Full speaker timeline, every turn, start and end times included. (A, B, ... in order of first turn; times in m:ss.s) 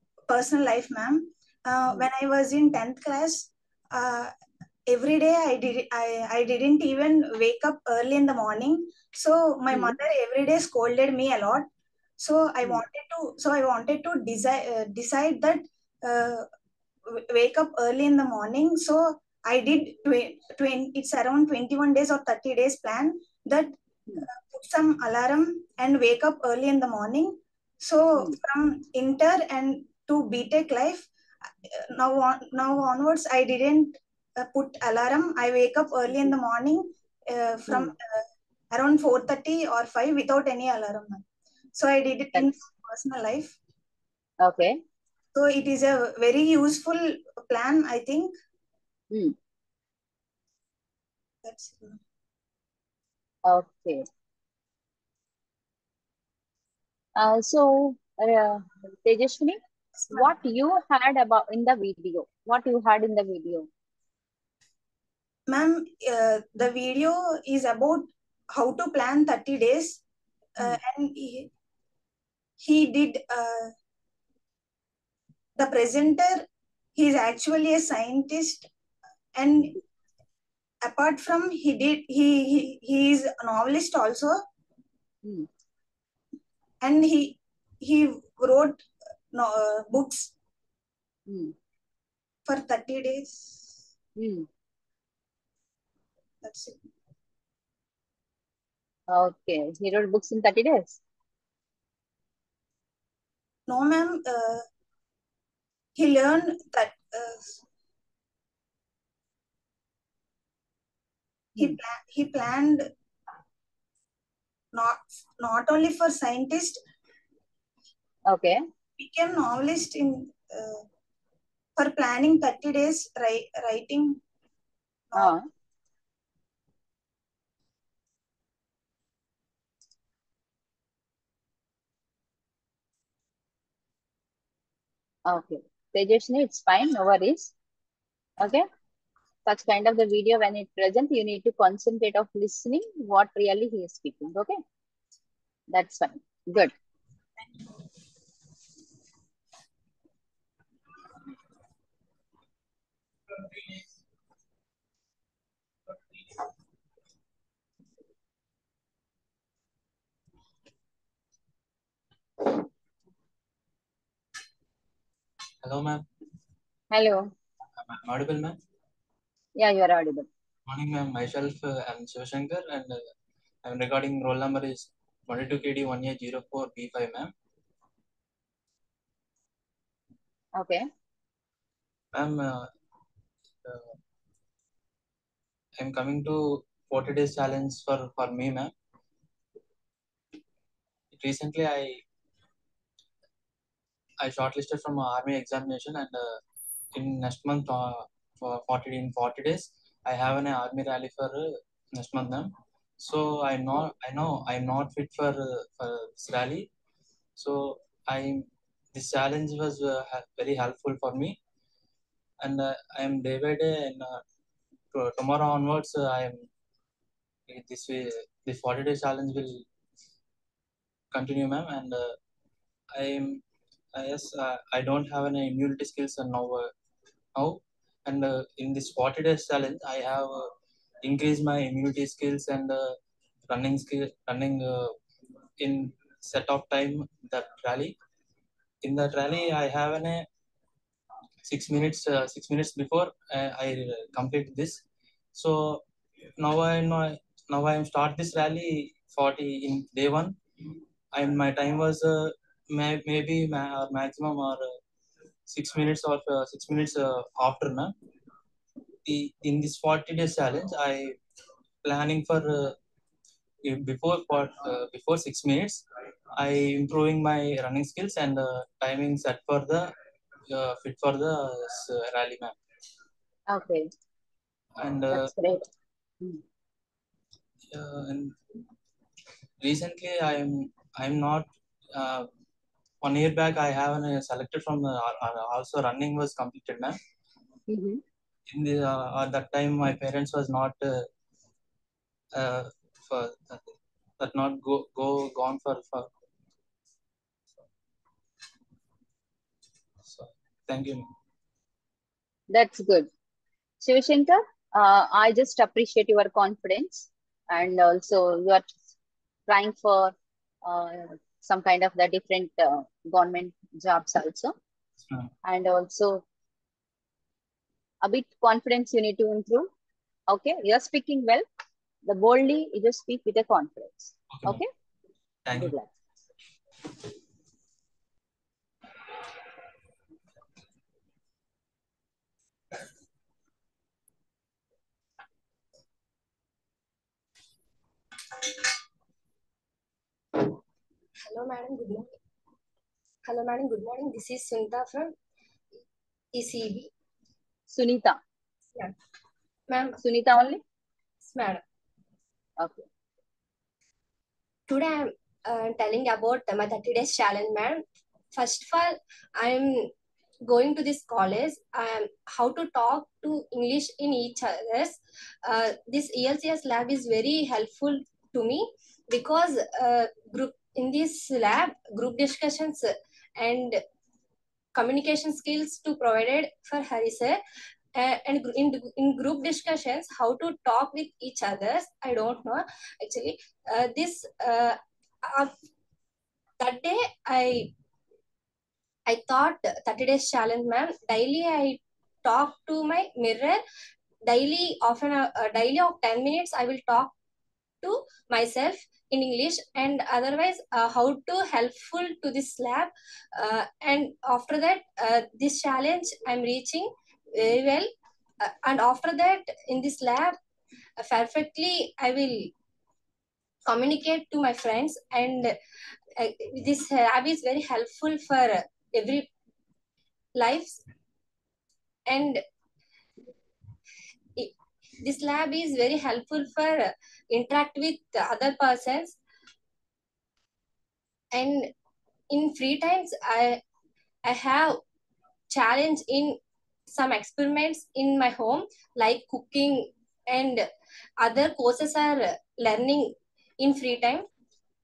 0:00.3-0:04.3 A
0:04.9-0:11.7 A
0:09.7-0:10.0 B
0:12.2-0:16.5 A
0:17.1-0:31.0 A
0:31.6-0:41.2 A
0:37.7-0:37.9 B
0:41.8-0:43.5 A
0:44.4-0:44.8 B
0:45.3-0:48.3 A
0:51.4-0:52.0 A
0:53.4-0:54.0 B
0:57.2-0:59.6 B
1:00.1-1:03.7 B
1:05.5-1:10.0 A
1:10.6-1:11.5 A
1:12.6-1:13.7 A
1:15.6-1:18.7 A
1:19.3-1:19.8 A
1:20.8-1:24.4 A
1:26.8-1:30.3 A
1:31.3-1:31.5 B
1:32.5-1:33.8 A
1:34.2-1:34.5 B
1:36.4-1:36.8 A
1:39.1-1:41.0 B
1:43.7-1:44.6 A
1:45.9-1:47.6 A
1:51.6-1:52.9 A
1:54.7-1:56.8 A
1:58.2-1:58.6 B
1:59.0-2:00.8 A
2:01.8-2:04.2 A
2:05.1-2:05.4 A
2:05.1-2:05.4 B
2:15.2-2:17.5 B
2:18.4-2:18.6 B
2:19.4-2:24.6 B
2:25.7-2:26.7 B
2:45.6-2:46.0 C
2:46.9-2:47.3 B
2:47.8-2:48.6 C
2:49.6-2:50.3 B
2:50.6-2:53.1 C
2:53.6-2:57.3 C
3:00.5-3:00.8 B
3:02.1-3:02.7 C
3:03.6-3:04.0 C
3:05.8-3:08.7 C
3:11.1-3:12.0 C
3:14.2-3:16.4 C
3:16.9-3:26.7 C
3:27.4-3:31.4 C
3:32.4-3:34.2 C
3:34.9-3:36.5 C
3:37.5-3:39.6 C
3:41.1-3:42.2 C
3:42.9-3:43.4 C
3:43.9-3:46.7 C
3:47.3-3:53.0 C
3:53.5-3:54.9 C
3:55.6-3:58.0 C
3:58.8-4:00.2 C
4:01.4-4:04.8 C
4:05.3-4:05.8 C
4:06.4-4:10.4 C
4:11.1-4:14.8 C
4:15.5-4:17.9 C
4:19.0-4:21.2 C
4:21.8-4:22.8 C
4:23.6-4:29.9 C
4:30.5-4:32.5 C
4:33.5-4:33.9 B
4:34.8-4:35.3 C
4:35.1-4:35.6 B
4:37.7-4:38.3 C
4:39.6-4:42.3 C
4:43.0-4:47.0 C
4:47.7-4:48.0 B
4:48.5-4:51.1 C
4:52.3-4:56.1 C
5:00.0-5:01.1 C
5:02.5-5:03.1 B
5:03.8-5:08.7 B
5:09.5-5:14.5 B
5:15.4-5:16.2 B
5:18.0-5:19.7 B
5:20.3-5:21.4 B
5:22.0-5:24.7 B
5:24.3-5:24.6 C
5:25.4-5:25.8 C
5:25.5-5:25.9 B
5:41.2-5:42.1 D
5:43.2-5:45.1 D
5:46.3-5:46.9 D
5:47.7-5:48.2 B
5:49.7-5:50.0 D
5:50.0-5:50.6 B
5:51.2-5:51.6 D
5:52.6-5:52.8 B
5:54.7-5:59.9 D
6:00.4-6:13.8 D
6:14.7-6:17.4 D
6:17.9-6:25.5 D
6:26.6-6:27.7 D
6:29.0-6:33.6 D
6:34.2-6:37.1 D
6:37.8-6:50.4 D
6:51.0-6:52.5 D
6:53.6-6:55.6 D
6:56.2-6:59.3 D
7:00.3-7:00.8 D
7:02.1-7:02.4 D
7:04.4-7:09.2 D
7:11.3-7:11.7 D
7:12.3-7:13.6 D
7:14.2-7:14.8 D
7:15.5-7:16.4 D
7:16.9-7:20.6 D
7:21.2-7:24.3 D